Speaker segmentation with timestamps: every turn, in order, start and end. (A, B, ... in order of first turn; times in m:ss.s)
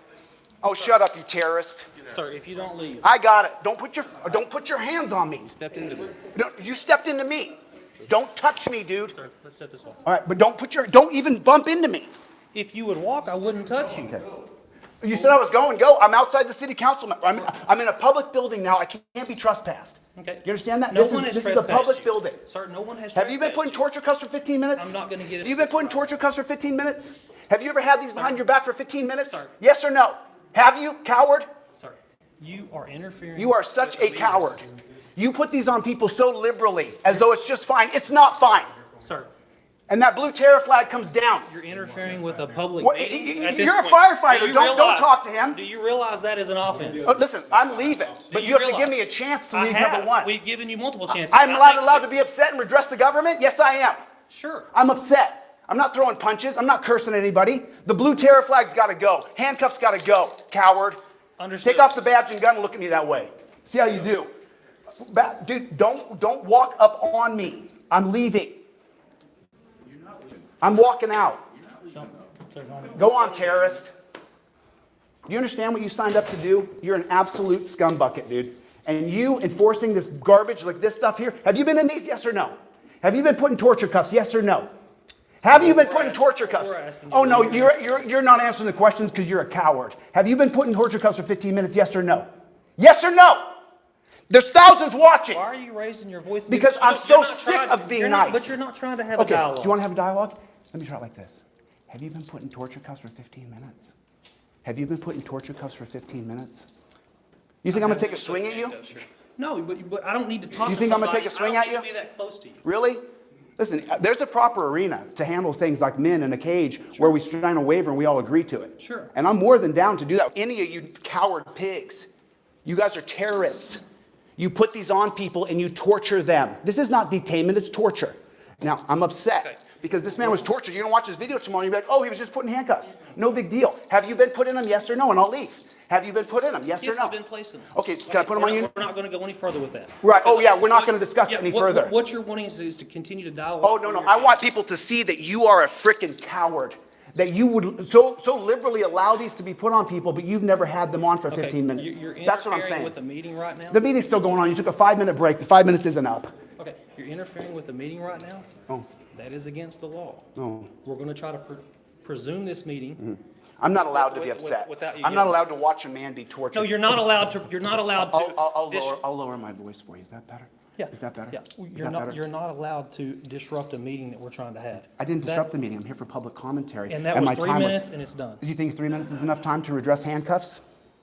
0:00.6-0:02.0 A
0:02.0-0:03.1 B
0:03.0-0:05.6 A
0:05.6-0:06.2 B
0:06.2-0:09.1 A
0:09.1-0:10.0 B
0:10.0-0:12.1 A
0:12.5-0:14.2 B
0:13.9-0:14.2 A
0:15.0-0:22.4 A
0:15.1-0:15.4 B
0:20.2-0:23.8 B
0:23.1-0:31.5 A
0:24.7-0:26.1 B
0:28.1-0:28.4 B
0:29.2-0:29.5 B
0:31.8-0:34.8 B
0:33.4-0:34.6 A
0:35.2-0:38.7 A
0:39.0-0:39.3 B
0:39.9-0:41.5 A
0:41.4-0:47.1 B
0:42.8-0:45.6 A
0:47.0-0:50.3 A
0:48.2-0:52.1 B
0:51.1-0:54.0 A
0:54.3-0:54.7 B
0:54.7-1:01.0 A
1:01.4-1:02.0 B
1:01.6-1:04.3 A
1:05.0-1:08.6 A
1:10.6-1:11.4 A
1:11.9-1:13.2 B
1:12.9-1:13.9 A
1:15.3-1:24.7 A
1:25.4-1:32.3 A
1:25.4-1:28.1 B
1:32.8-1:33.5 A
1:34.3-1:35.4 A
1:35.3-1:39.8 B
1:36.5-1:38.6 A
1:39.1-1:43.9 A
1:44.6-1:46.7 A
1:47.6-1:48.9 A
1:47.7-1:52.6 B
1:50.6-1:51.9 A
1:52.6-1:53.0 A
1:53.6-2:02.1 A
1:58.8-1:59.1 B
2:02.6-2:03.8 A
2:04.4-2:17.2 A
2:09.4-2:10.4 B
2:16.8-2:24.4 B
2:17.7-2:18.7 A
2:20.0-2:22.0 A
2:23.6-2:33.0 A
2:31.3-2:33.8 B
2:33.7-2:36.3 A
2:36.6-2:38.5 B
2:39.1-2:40.3 B
2:40.3-2:40.7 A
2:40.8-2:43.0 B
2:43.0-2:52.2 A
2:43.7-2:45.4 B
2:46.5-2:49.0 B
2:50.8-2:55.5 B
2:55.0-2:57.9 A
2:56.9-2:58.4 B
2:58.4-3:00.6 A